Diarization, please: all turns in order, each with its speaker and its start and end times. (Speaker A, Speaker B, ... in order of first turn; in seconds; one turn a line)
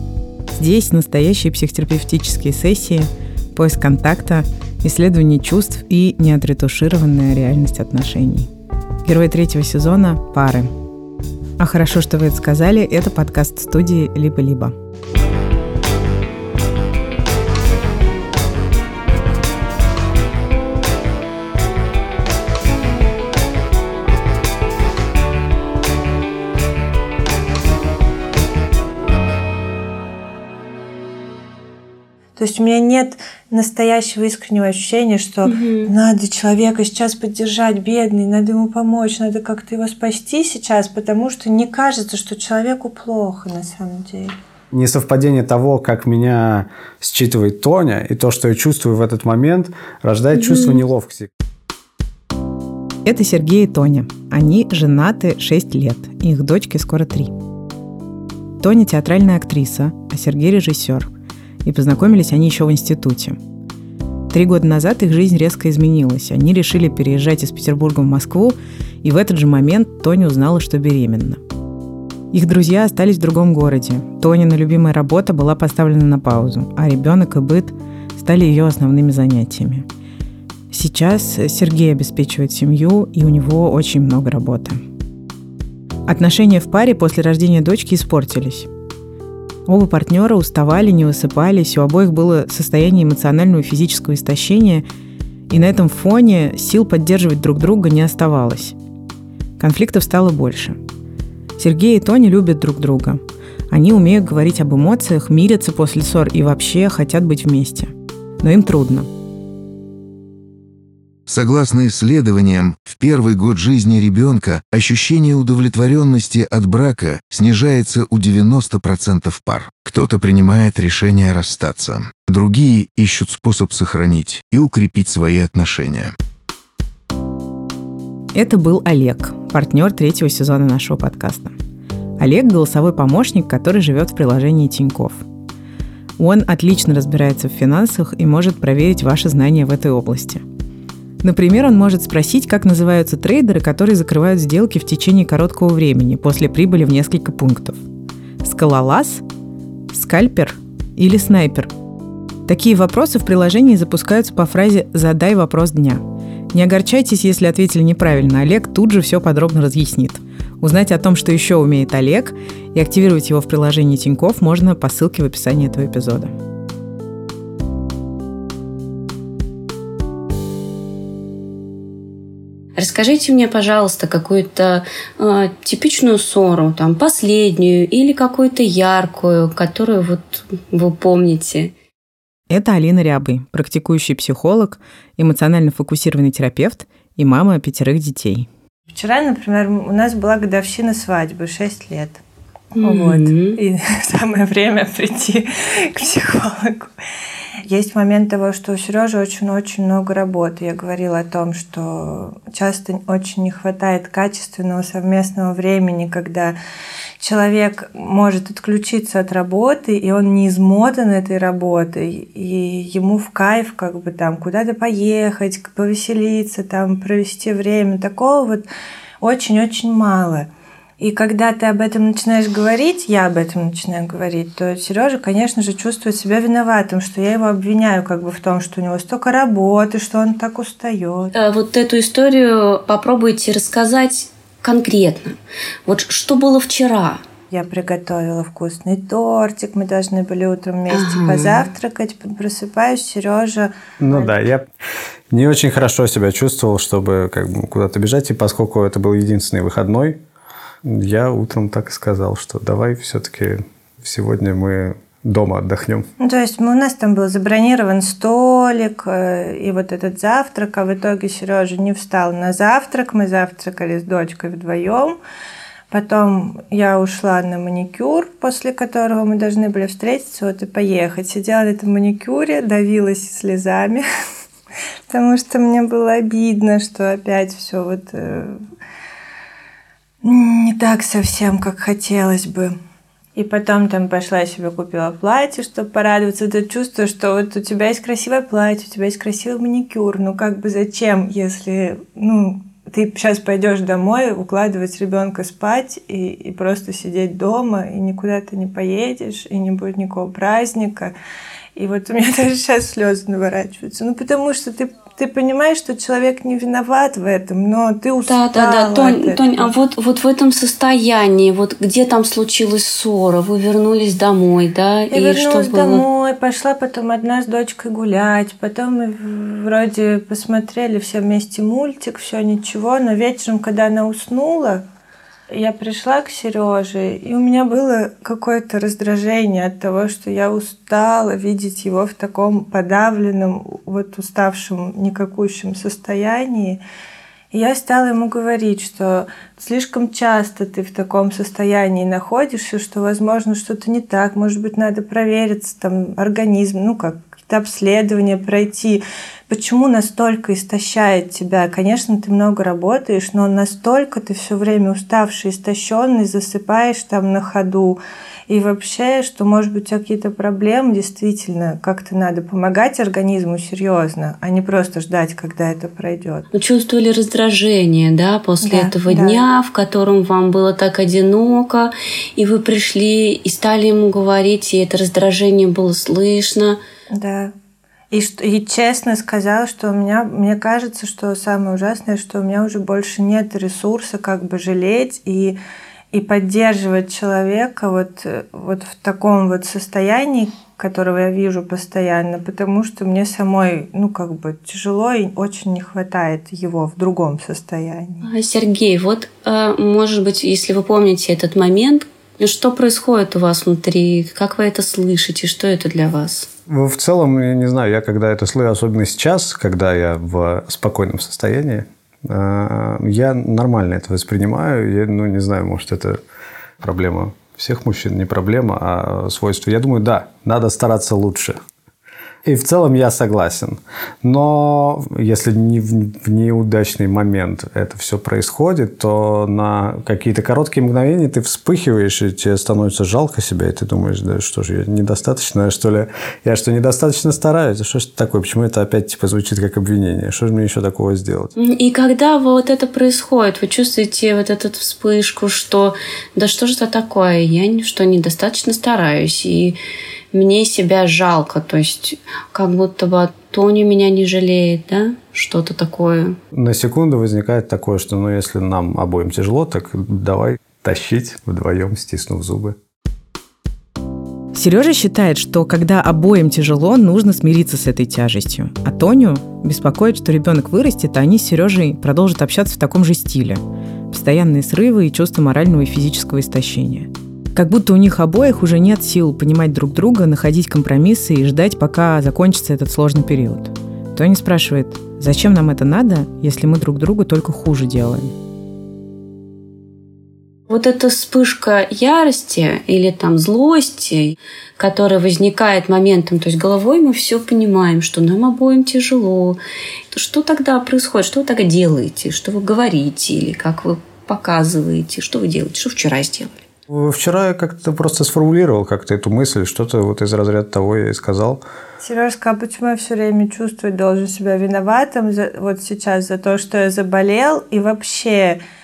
Speaker A: 0.5-8.5
Speaker A: 9.0-10.7
Speaker A: 11.6-14.7
Speaker B: 32.4-44.3
Speaker C: 35.4-35.9
Speaker D: 44.7-51.3
Speaker C: 50.3-50.8
Speaker A: 53.0-57.3
Speaker A: 58.6-61.1
Speaker A: 61.6-63.4
Speaker A: 64.3-71.4
Speaker A: 72.3-79.8
Speaker A: 80.7-84.8
Speaker A: 86.1-88.7
Speaker A: 89.7-94.8
Speaker A: 95.5-98.8
Speaker A: 99.6-100.8
Speaker A: 101.6-109.1
Speaker E: 111.3-126.1
Speaker A: 128.3-131.6
Speaker A: 132.2-135.2
Speaker A: 136.2-140.4
Speaker A: 141.2-147.8
Speaker A: 148.4-149.2
Speaker A: 149.9-151.7
Speaker A: 152.5-166.3
Speaker C: 172.8-181.7
Speaker A: 182.5-188.5
Speaker B: 188.9-192.2
Speaker C: 192.8-193.6
Speaker B: 192.8-196.9
Speaker B: 197.7-206.6
Speaker B: 207.2-218.7
Speaker B: 219.2-220.5
Speaker B: 221.0-231.3
Speaker C: 231.3-237.2
Speaker B: 237.5-244.4
Speaker C: 240.9-241.7
Speaker D: 244.0-244.7
Speaker D: 245.3-250.2
Speaker D: 250.8-256.1
Speaker B: 256.2-265.2
Speaker B: 265.9-274.1
Speaker B: 275.1-278.6
Speaker B: 280.2-282.8
Speaker B: 283.4-301.1
Speaker B: 301.8-309.7
Speaker C: 308.2-316.1
Speaker B: 315.1-324.8
Speaker B: 325.5-336.8
Speaker B: 337.5-366.5
Speaker C: 366.5-376.8
Speaker B: 368.6-369.5
Speaker B: 377.1-377.5
Speaker B: 378.1-385.6
Speaker B: 386.1-398.3
Speaker C: 398.2-406.5
Speaker D: 406.7-416.2
Speaker D: 416.8-421.6
Speaker D: 422.4-441.5
Speaker C: 441.6-449.8
Speaker C: 450.3-456.4
Speaker D: 456.5-462.8
Speaker A: 464.5-488.3
Speaker C: 490.7-499.6
Speaker C: 500.1-506.6
Speaker D: 506.9-511.6
Speaker B: 512.0-518.6